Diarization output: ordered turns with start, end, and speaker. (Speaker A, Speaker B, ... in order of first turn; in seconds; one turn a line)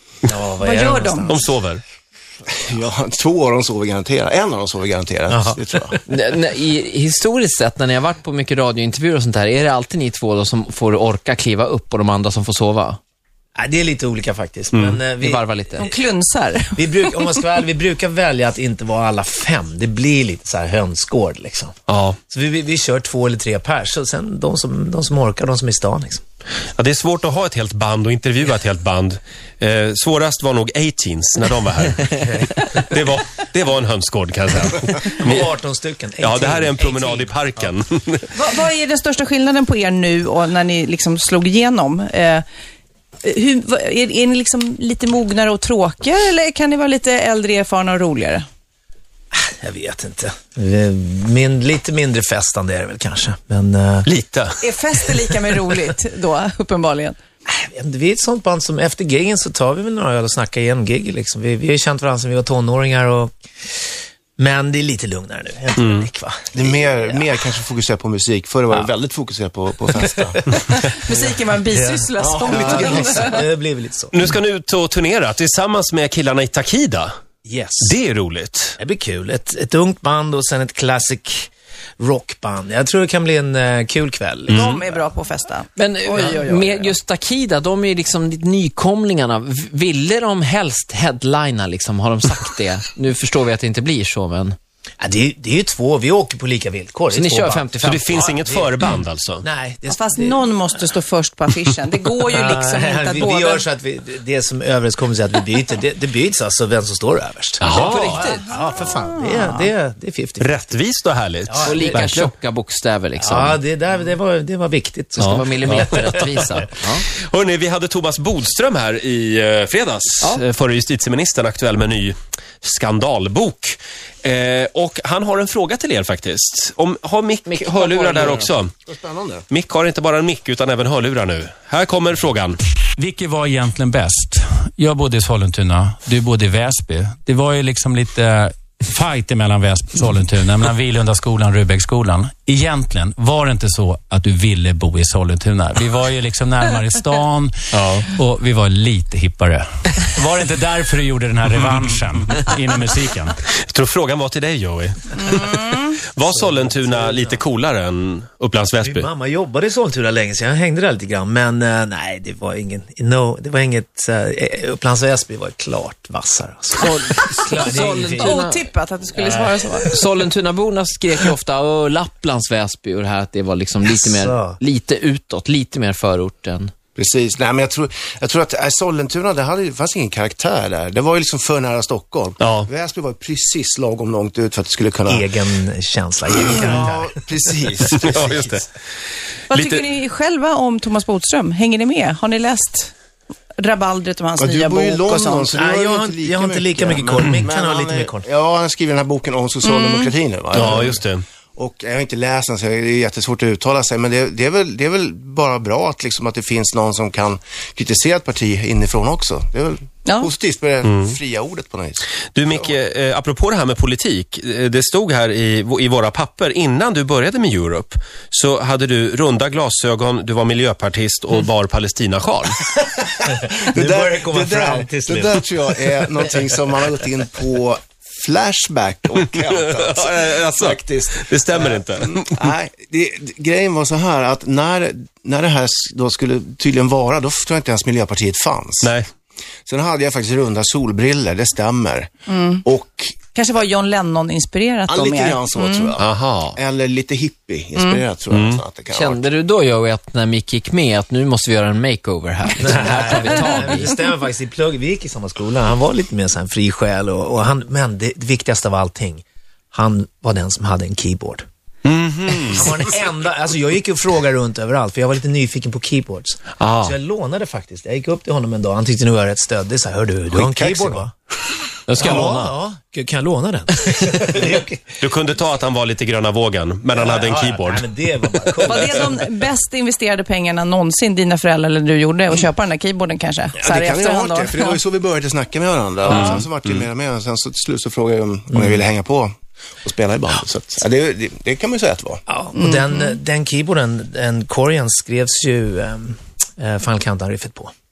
Speaker A: 0.2-1.5
Speaker B: 0.6-1.4
Speaker C: 1.3-1.8
Speaker D: 2.5-6.0
Speaker A: 5.3-6.0
Speaker E: 6.1-13.0
Speaker A: 13.6-15.5
Speaker C: 14.7-15.0
Speaker E: 15.3-15.9
Speaker B: 15.8-17.3
Speaker A: 16.8-21.7
Speaker C: 21.9-22.2
Speaker A: 22.3-26.2
Speaker C: 26.8-35.5
Speaker A: 35.0-37.7
Speaker C: 36.2-38.3
Speaker B: 38.3-42.4
Speaker B: 43.2-48.5
Speaker A: 49.3-54.1
Speaker C: 54.1-54.6
Speaker B: 54.6-57.2
Speaker A: 57.5-63.3
Speaker A: 64.4-67.2
Speaker C: 65.8-66.1
Speaker D: 66.5-70.6
Speaker A: 70.3-74.3
Speaker B: 70.6-73.4
Speaker D: 72.2-73.4
Speaker C: 74.1-77.1
Speaker A: 77.5-78.0
Speaker C: 77.8-78.8
Speaker A: 78.8-85.0
Speaker C: 84.5-84.8
Speaker B: 84.5-87.0
Speaker E: 85.8-94.6
Speaker A: 95.0-98.9
Speaker E: 97.1-98.3
Speaker C: 97.8-99.5
Speaker A: 99.4-100.8
Speaker B: 99.9-103.7
Speaker A: 102.3-110.6
Speaker C: 107.6-108.3
Speaker E: 107.7-108.5
Speaker B: 108.3-109.7
Speaker C: 110.4-112.3
Speaker A: 111.5-112.0
Speaker E: 111.6-113.6
Speaker A: 113.2-116.6
Speaker E: 115.2-117.1
Speaker C: 115.2-116.4
Speaker C: 117.1-128.7
Speaker E: 127.5-128.6
Speaker D: 128.8-129.4
Speaker C: 129.5-132.6
Speaker F: 133.0-153.4
Speaker C: 147.7-148.1
Speaker C: 153.6-159.1
Speaker B: 155.3-156.0
Speaker A: 156.2-157.4
Speaker A: 158.8-168.4
Speaker E: 166.8-168.7
Speaker B: 168.0-170.0
Speaker A: 169.2-169.6
Speaker E: 169.9-176.7
Speaker A: 173.8-174.6
Speaker D: 177.0-185.3
Speaker C: 182.4-182.7
Speaker A: 185.1-187.1
Speaker D: 186.3-188.6
Speaker C: 188.0-188.7
Speaker B: 189.5-192.9
Speaker C: 189.5-189.8
Speaker B: 193.6-195.5
Speaker D: 194.4-212.8
Speaker A: 195.5-198.2
Speaker B: 199.6-200.1
Speaker C: 200.5-201.2
Speaker C: 210.8-211.2
Speaker C: 212.3-222.6
Speaker A: 223.3-225.7
Speaker D: 223.7-238.9
Speaker C: 229.5-232.4
Speaker D: 239.7-243.2
Speaker B: 242.3-242.6
Speaker B: 243.3-245.9
Speaker D: 244.9-249.3
Speaker C: 246.0-246.6
Speaker C: 248.3-248.6
Speaker E: 249.0-254.0
Speaker A: 252.6-261.4
Speaker C: 261.8-262.7
Speaker A: 262.5-271.1
Speaker C: 266.6-266.9
Speaker D: 270.3-271.0
Speaker E: 271.9-272.6
Speaker A: 271.9-275.0
Speaker C: 275.0-277.9
Speaker A: 276.9-279.2
Speaker B: 278.6-284.8
Speaker D: 283.6-292.2
Speaker B: 286.1-286.4
Speaker C: 286.1-286.8
Speaker A: 292.3-297.7
Speaker B: 292.5-293.2